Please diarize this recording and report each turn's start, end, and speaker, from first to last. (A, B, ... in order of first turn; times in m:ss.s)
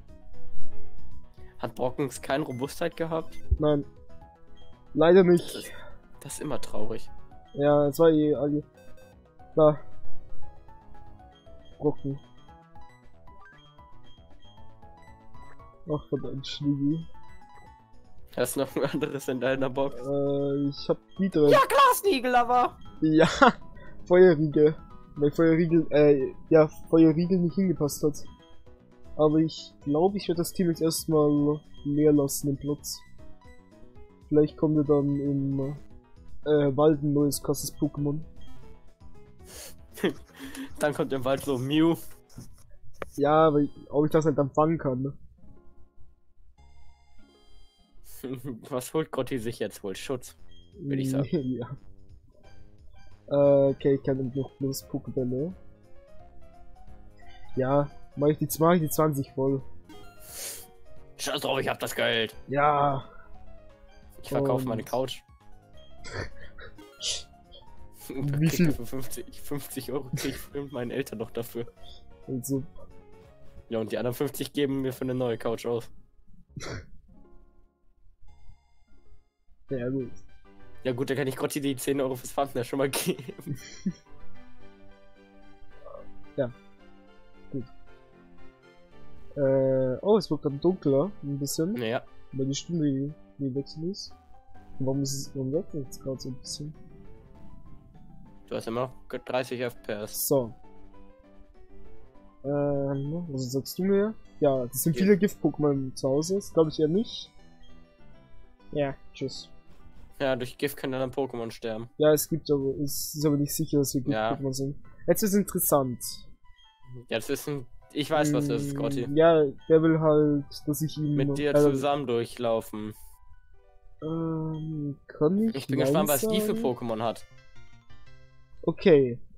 0:01.6-0:03.4 A
0:03.6-0:03.8 B
0:04.9-0:05.7 B
0:06.2-0:07.1 A
0:07.5-0:08.6 B
0:09.5-0:09.8 B
0:11.8-0:12.2 B
0:15.9-0:17.1 B
0:18.3-0:20.0 A
0:19.9-0:21.6 B
0:21.4-0:22.8 A
0:23.0-0:28.3 B
0:29.2-0:33.0 B
0:34.3-0:35.8 B
0:36.4-0:38.3 B
0:40.0-0:42.0 A
0:43.2-0:45.1 B
0:48.2-0:50.4 A
0:50.8-0:51.7 B
0:50.9-0:51.3 A
0:53.3-0:55.6 B
0:57.6-0:59.6 B
1:01.2-1:02.4 A
1:02.5-1:03.0 B
1:04.2-1:05.2 A
1:04.3-1:04.9 B
1:08.1-1:11.7 A
1:08.2-1:08.8 B
1:12.3-1:12.7 B
1:13.7-1:15.9 A
1:19.7-1:20.2 B
1:20.8-1:23.5 A
1:29.4-1:34.1 B
1:31.7-1:32.0 A
1:34.8-1:36.7 B
1:38.5-1:40.2 A
1:40.1-1:40.6 B
1:42.4-1:47.3 B
1:48.7-1:49.5 B
1:50.2-1:51.9 A
1:52.0-1:56.2 B
1:54.0-1:54.4 A
1:57.1-1:59.1 A
1:58.1-2:01.8 B
2:01.1-2:02.9 A
2:04.0-2:06.7 B
2:05.5-2:07.2 A
2:08.6-2:09.2 B